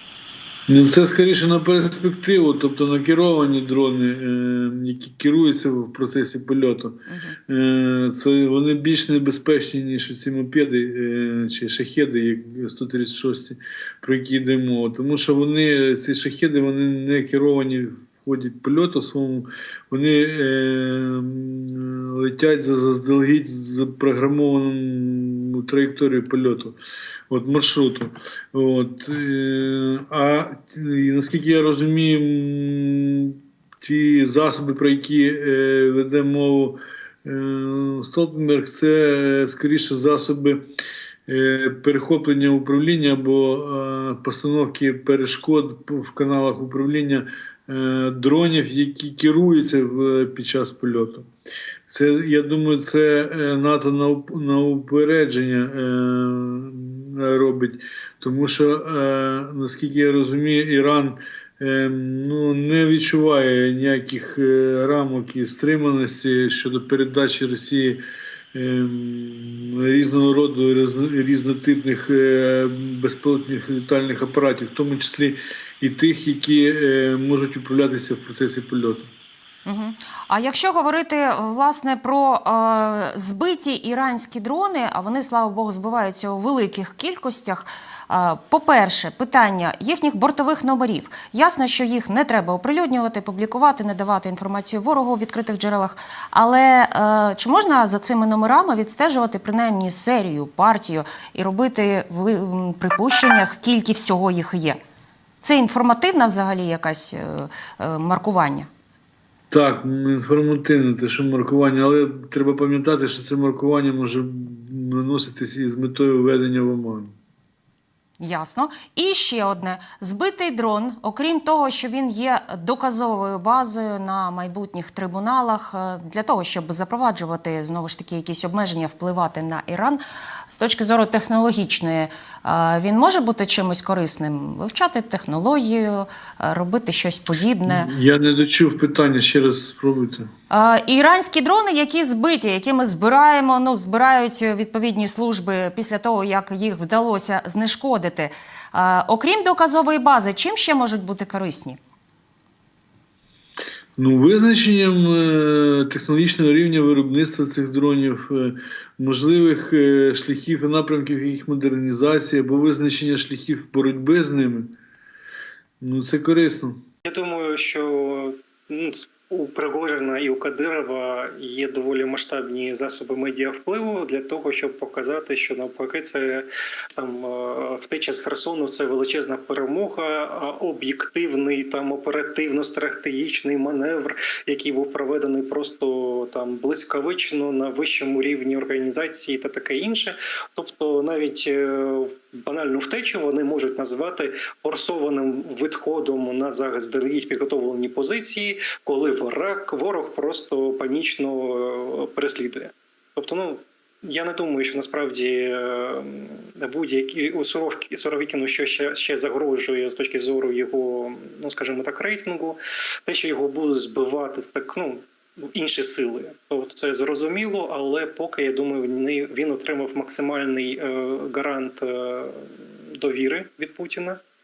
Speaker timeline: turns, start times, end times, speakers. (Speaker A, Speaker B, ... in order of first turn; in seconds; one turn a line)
Speaker A: 0.7-26.8
Speaker B: 7.1-7.4
Speaker A: 27.3-40.6
Speaker A: 41.3-51.2
Speaker A: 51.9-68.0
Speaker A: 68.5-79.1
Speaker B: 79.7-104.8
Speaker B: 105.4-108.7
Speaker A: 109.5-117.1
Speaker B: 118.2-137.9
Speaker A: 137.7-140.3
Speaker B: 140.5-151.8
Speaker A: 154.0-164.8
Speaker A: 165.8-166.8
Speaker C: 167.0-224.2